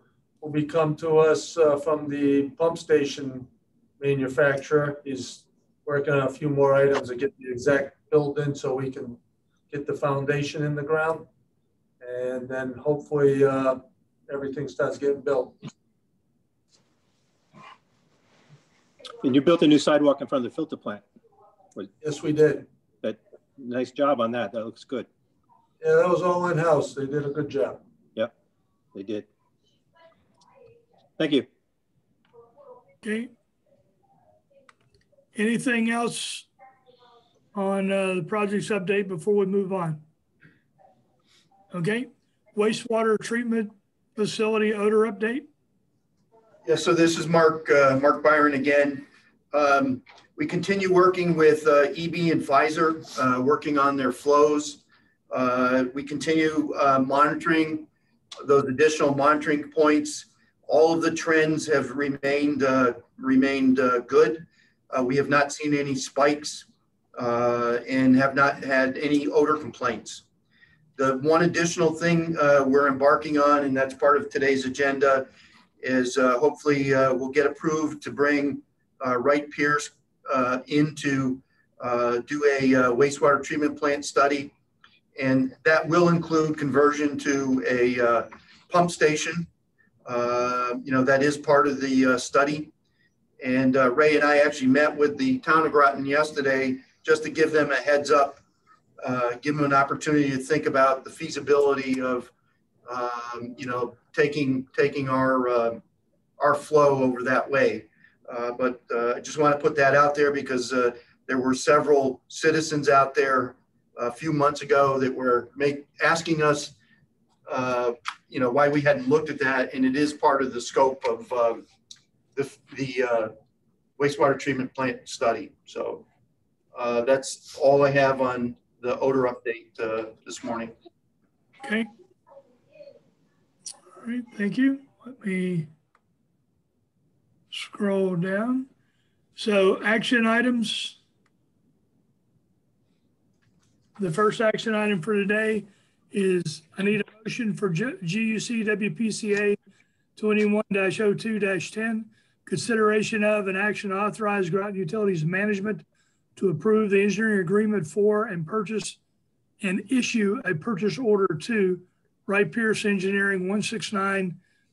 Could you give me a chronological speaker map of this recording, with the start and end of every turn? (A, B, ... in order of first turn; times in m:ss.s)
0:00.4-0:09.2 A
0:09.7-0:11.3 A
0:12.0-0:15.6 A
0:19.2-0:21.0 B
0:22.0-0:22.7 A
0:23.0-0:25.1 B
0:25.8-0:27.8 A
0:28.9-0:29.2 B
0:31.2-0:31.4 B
0:33.0-0:33.3 C
0:35.3-0:36.5 C
0:37.5-0:40.0 C
0:41.7-0:45.5 C
0:46.6-0:57.9 D
0:58.4-1:10.2 D
1:11.0-1:15.3 D
1:15.8-1:24.5 D
1:25.2-1:29.5 D
1:30.0-1:32.7 D
1:33.4-1:38.4 D
1:39.0-1:42.3 D
1:42.9-1:45.8 D
1:46.4-1:56.7 D
1:57.4-2:01.6 D
2:02.4-2:03.3 D
2:04.0-2:06.0 D
2:06.7-2:10.7 D
2:11.6-2:11.9 C
2:14.0-2:15.7 C
2:17.5-2:18.7 C
2:19.4-2:21.0 C
2:24.0-2:29.6 C
2:30.2-2:35.8 C
2:36.4-2:39.0 C
2:39.6-2:44.4 C